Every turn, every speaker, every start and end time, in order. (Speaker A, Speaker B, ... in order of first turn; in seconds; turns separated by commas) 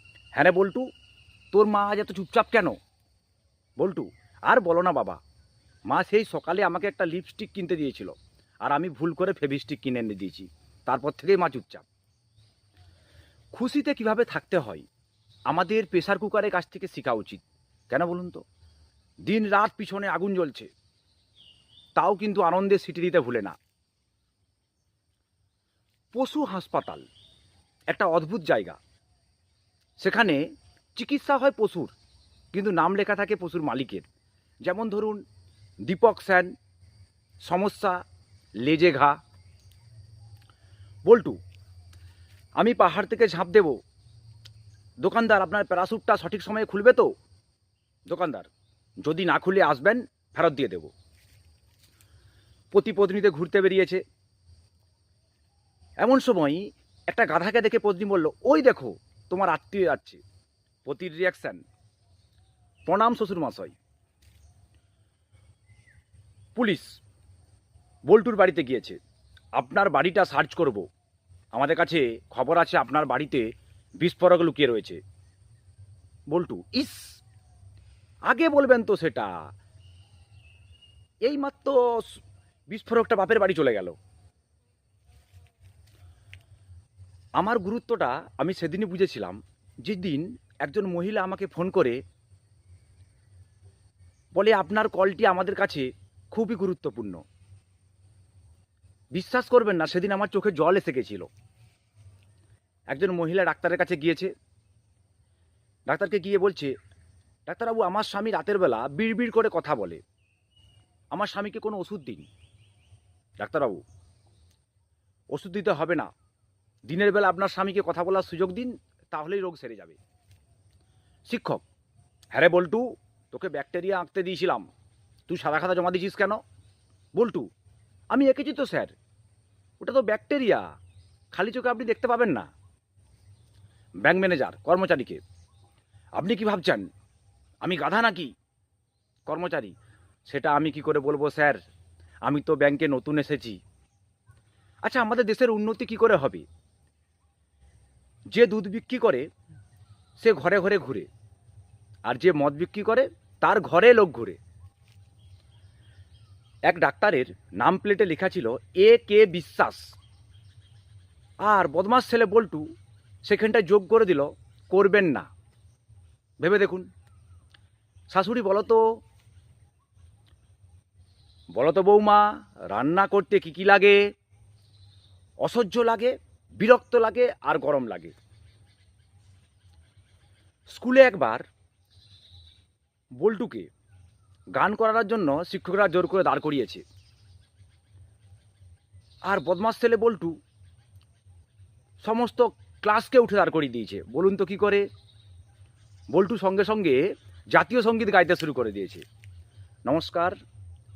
Speaker A: 0.3-0.9, Speaker A: 1.5-2.8, Speaker A: 3.8-5.2, Speaker A: 5.9-11.8, Speaker A: 13.5-14.9, Speaker A: 15.5-18.4, Speaker A: 19.3-20.7, Speaker A: 22.0-23.6, Speaker A: 26.1-27.1, Speaker A: 27.9-28.8, Speaker A: 30.0-30.4, Speaker A: 31.0-31.9, Speaker A: 32.5-34.1, Speaker A: 34.6-35.2, Speaker A: 35.9-36.5, Speaker A: 37.5-38.0, Speaker A: 38.6-39.2, Speaker A: 41.1-41.4, Speaker A: 42.6-43.8, Speaker A: 45.0-47.1, Speaker A: 48.1-48.5, Speaker A: 49.0-50.9, Speaker A: 52.7-54.0, Speaker A: 56.0-60.2, Speaker A: 60.9-61.6, Speaker A: 62.9-63.8, Speaker A: 66.6-67.0, Speaker A: 68.1-69.0, Speaker A: 69.6-70.9, Speaker A: 71.5-75.0, Speaker A: 76.3-77.2, Speaker A: 78.3-79.3, Speaker A: 81.2-84.0, Speaker A: 87.4-92.0, Speaker A: 94.3-97.2, Speaker A: 99.2-101.3, Speaker A: 102.9-104.3, Speaker A: 105.9-106.7, Speaker A: 107.5-110.0, Speaker A: 111.1-112.3, Speaker A: 113.4-113.8, Speaker A: 115.3-116.1, Speaker A: 116.9-120.0, Speaker A: 121.3-121.6, Speaker A: 122.3-124.7, Speaker A: 125.3-126.4, Speaker A: 127.2-127.5, Speaker A: 128.1-128.9, Speaker A: 129.8-130.7, Speaker A: 131.3-132.5, Speaker A: 134.0-135.2, Speaker A: 136.2-136.9, Speaker A: 137.6-138.3, Speaker A: 139.3-139.7, Speaker A: 140.3-141.6, Speaker A: 142.2-143.6, Speaker A: 144.8-146.4, Speaker A: 148.3-149.3, Speaker A: 150.2-151.1, Speaker A: 152.1-154.4, Speaker A: 156.7-159.9, Speaker A: 161.4-162.7, Speaker A: 163.2-165.3, Speaker A: 166.4-166.9, Speaker A: 168.1-168.8, Speaker A: 171.6-174.0, Speaker A: 175.4-178.1, Speaker A: 180.7-181.4, Speaker A: 183.2-183.7, Speaker A: 184.6-186.8, Speaker A: 189.3-190.4, Speaker A: 192.0-194.8, Speaker A: 196.1-197.0, Speaker A: 197.5-199.0, Speaker A: 199.9-200.4